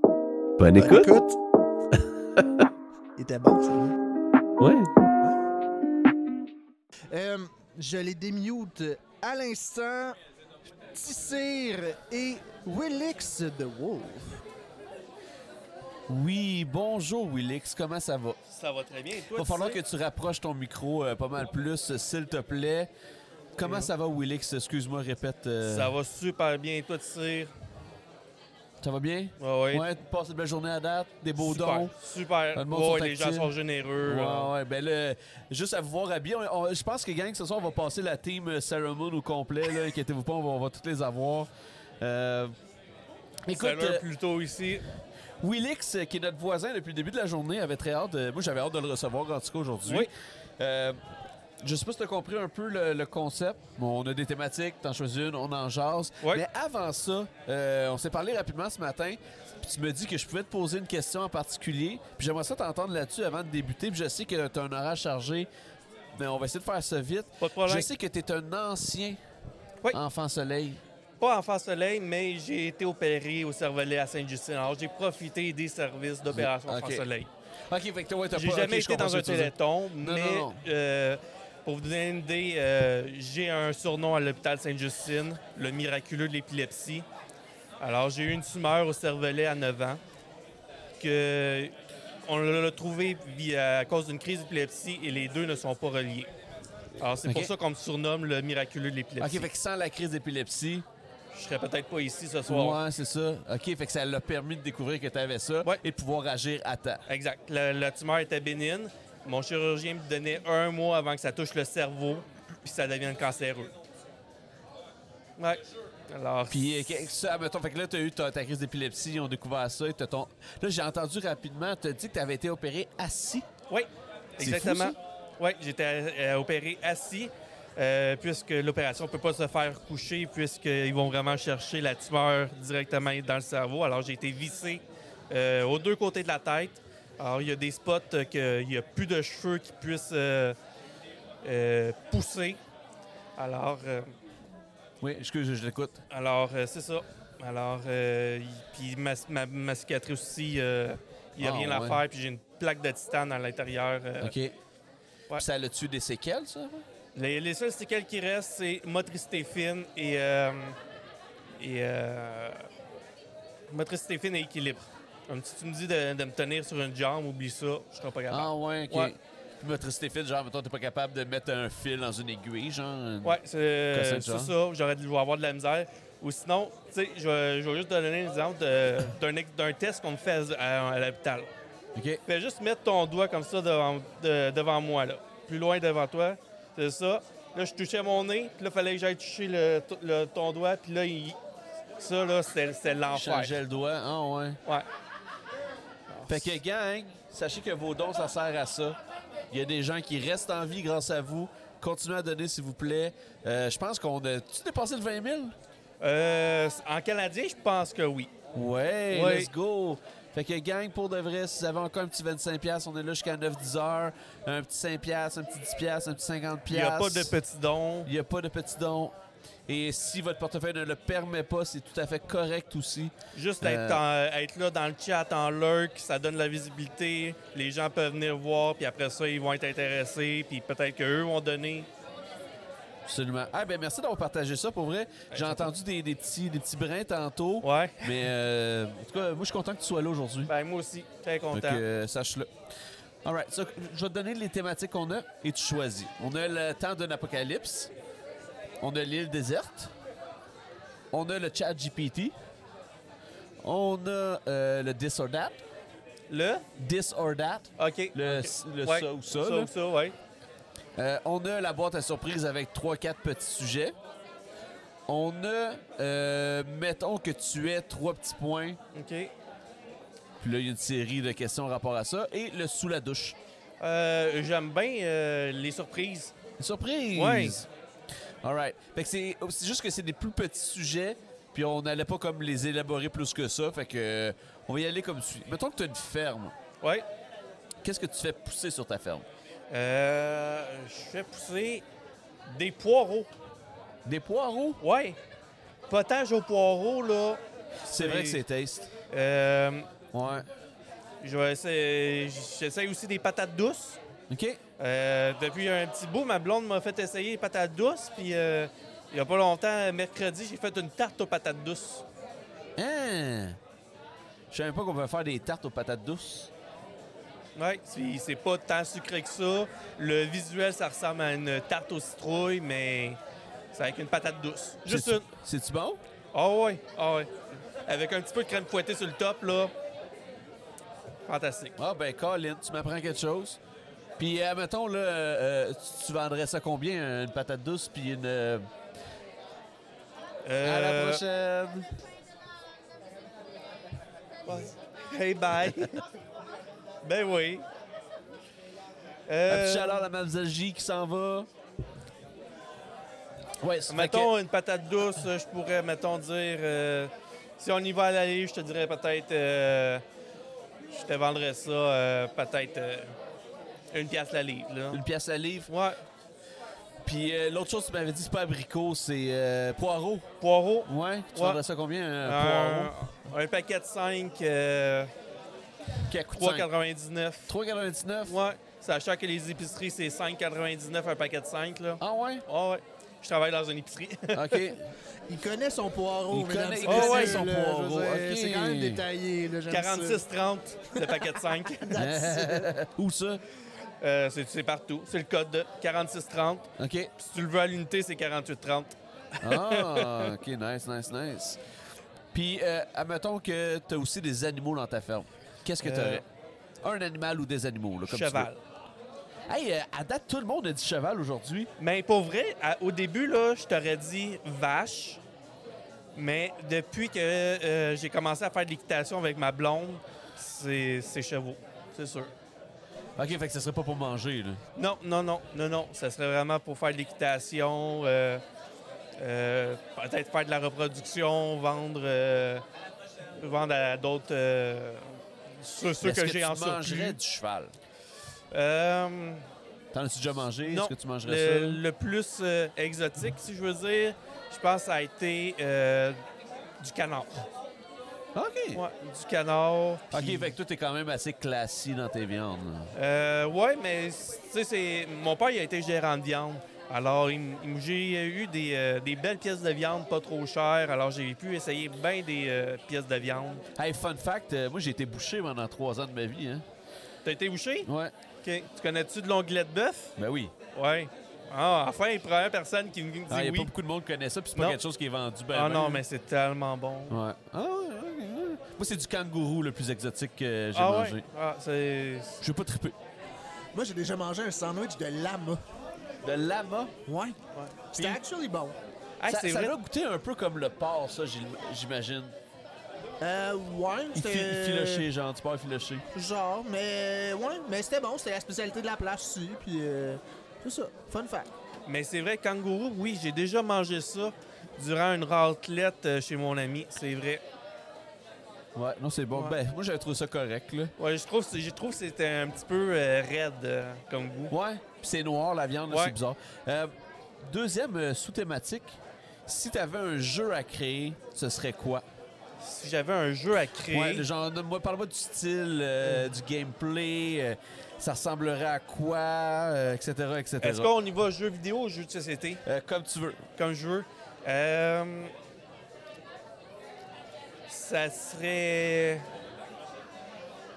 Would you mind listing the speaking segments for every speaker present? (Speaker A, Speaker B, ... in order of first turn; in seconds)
Speaker A: 0.6-1.1, 2.4-2.6, 4.6-4.9, 16.1-18.4, 19.3-22.9, 23.6-25.9, 28.8-31.9, 32.5-42.5, 43.5-44.0, 45.4-51.0, 51.6-65.5, 66.2-69.2, 69.9-70.8, 76.3-77.0, 77.7-80.6, 97.1-97.5, 99.2-100.9, 102.5-107.0, 116.5-123.5, 124.4-125.0, 145.0-146.0, 151.4-152.0, 154.2-154.5, 155.3-156.8, 168.3-173.4, 173.9-174.6, 181.9-182.2, 193.1-194.6, 196.3-199.0, 199.5-205.5, 208.5-217.3, 218.0-219.2, 219.7-224.0, 233.0-240.5, 241.5-242.5, 243.2-247.9, 248.8-249.9, 251.1-252.3, 253.6-255.6, 256.8-259.7, 260.9-263.9, 265.1-268.8, 270.4-273.4, 276.6-277.7, 278.4-286.5, 287.8-289.3, 294.1-294.8, 297.8-298.9, 300.1-300.5, 304.3-304.6, 312.8-313.6, 314.5-316.5, 324.9-326.0, 331.8-333.6, 334.2-338.6, 340.6-341.9, 349.5-351.5, 353.6-354.3, 364.9-365.7, 367.0-370.3, 370.8-372.9, 376.1-376.7, 377.5-378.4, 382.0-382.4, 384.3-384.9, 386.3-389.0, 391.9-393.4, 396.8-397.1, 399.4-401.6, 402.3-406.2, 406.8-408.5, 409.5-411.7, 423.2-424.6, 436.0-437.7, 439.9-441.8, 448.3-448.8, 450.1-452.9, 463.8-466.6, 467.9-468.1, 470.2-470.5, 473.3-476.0, 477.1-481.2, 482.4-482.9, 486.2-486.9, 487.9-488.2, 489.2-492.4, 494.1-496.1, 508.7-510.9, 514.5-522.1, 523.9-530.9, 532.6-533.5
Speaker B: 0.7-1.4, 3.2-3.9, 7.1-10.1, 10.9-14.4, 385.3-390.2, 390.9-392.7, 483.7-485.6, 487.1-487.4, 487.9-488.8, 493.2-495.1, 496.1-501.5
Speaker C: 18.5-19.8, 23.6-23.9, 25.6-27.5, 29.4-29.9, 31.4-34.5, 43.5-44.8, 67.4-67.9, 71.2-77.3, 78.3-87.0, 87.8-90.0, 91.0-91.7, 92.2-96.3, 97.0-99.5, 101.3-102.8, 107.1-113.7, 115.4-116.9, 123.7-140.6, 141.4-142.6, 143.3-144.1, 146.1-154.3, 157.2-160.8, 161.6-162.7, 163.7-169.1, 173.2-181.5, 182.2-191.4, 192.0-193.6, 196.1-196.6, 206.0-208.3, 209.1-209.5, 216.7-218.1, 223.3-231.9, 235.3-235.7, 237.6-238.2, 240.5-241.8, 256.3-256.6, 257.8-260.1, 268.9-269.3, 273.8-276.3, 277.1-277.6, 286.8-287.1, 289.7-291.8, 292.4-293.3, 294.8-295.2, 295.9-298.4, 299.1-299.9, 301.2-304.0, 304.8-312.1, 317.6-323.2, 323.7-325.3, 326.3-329.7, 331.2-331.8, 340.4-341.2, 344.4-346.1, 347.0-347.6, 349.3-350.1, 353.9-360.0, 360.9-363.1, 363.9-365.0, 365.7-366.0, 370.4-371.6, 372.2-375.1, 376.3-377.5, 378.2-384.6, 386.9-387.5, 389.7-392.0, 394.0-400.3, 405.8-406.2, 408.1-408.6, 411.8-415.2, 416.1-422.3, 424.8-428.4, 429.2-432.6, 433.4-437.2, 438.5-439.4, 440.6-446.2, 446.8-447.4, 448.7-450.6, 452.9-463.6, 467.2-467.9, 468.4-470.1, 470.7-473.7, 475.5-477.2, 480.7-482.4, 487.5-487.8, 489.2-489.8, 501.9-507.4, 511.0-514.5, 515.9-516.1, 522.6-524.3, 526.0-526.3, 530.6-532.6, 533.6-535.3, 537.7-539.2